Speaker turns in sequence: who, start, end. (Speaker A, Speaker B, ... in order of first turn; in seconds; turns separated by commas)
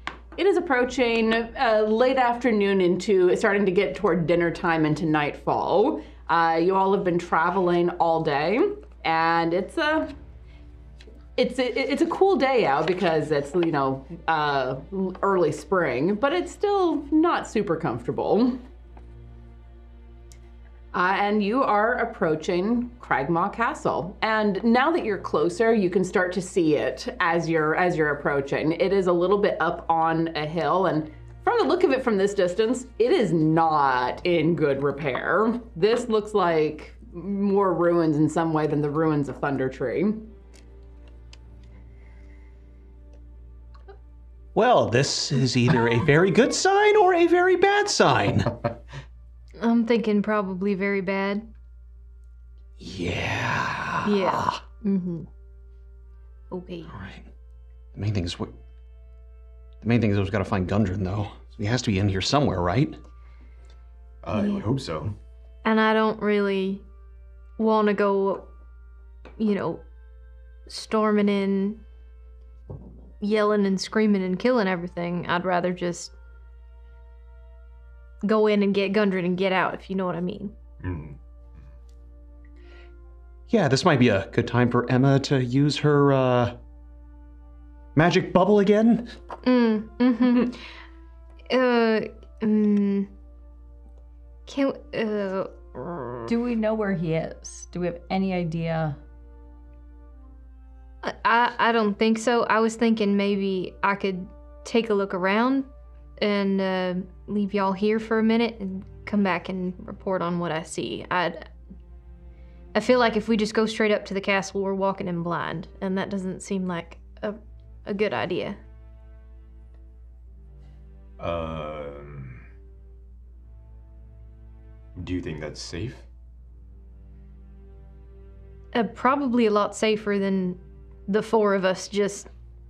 Speaker A: 0.3-10.1, Speaker A: 11.3-18.6, Speaker A: 20.9-40.3, Speaker B: 44.5-48.5, Speaker C: 49.6-51.5, Speaker B: 52.8-54.6, Speaker C: 54.0-55.3, Speaker C: 56.5-56.9, Speaker B: 56.9-57.3, Speaker B: 57.9-58.5, Speaker B: 59.8-63.0, Speaker D: 64.2-65.1, Speaker C: 64.3-64.6, Speaker C: 65.6-66.8, Speaker C: 67.6-68.5, Speaker C: 69.4-69.8, Speaker C: 70.7-71.8, Speaker C: 73.2-76.1, Speaker C: 78.2-80.5, Speaker D: 80.8-81.2, Speaker B: 83.5-86.6, Speaker B: 87.9-89.1, Speaker C: 89.4-90.6, Speaker C: 91.5-93.1, Speaker C: 94.5-96.3, Speaker E: 96.3-99.0, Speaker C: 101.0-111.5, Speaker C: 112.7-118.6, Speaker D: 121.2-122.4, Speaker D: 125.0-126.0, Speaker C: 128.7-132.3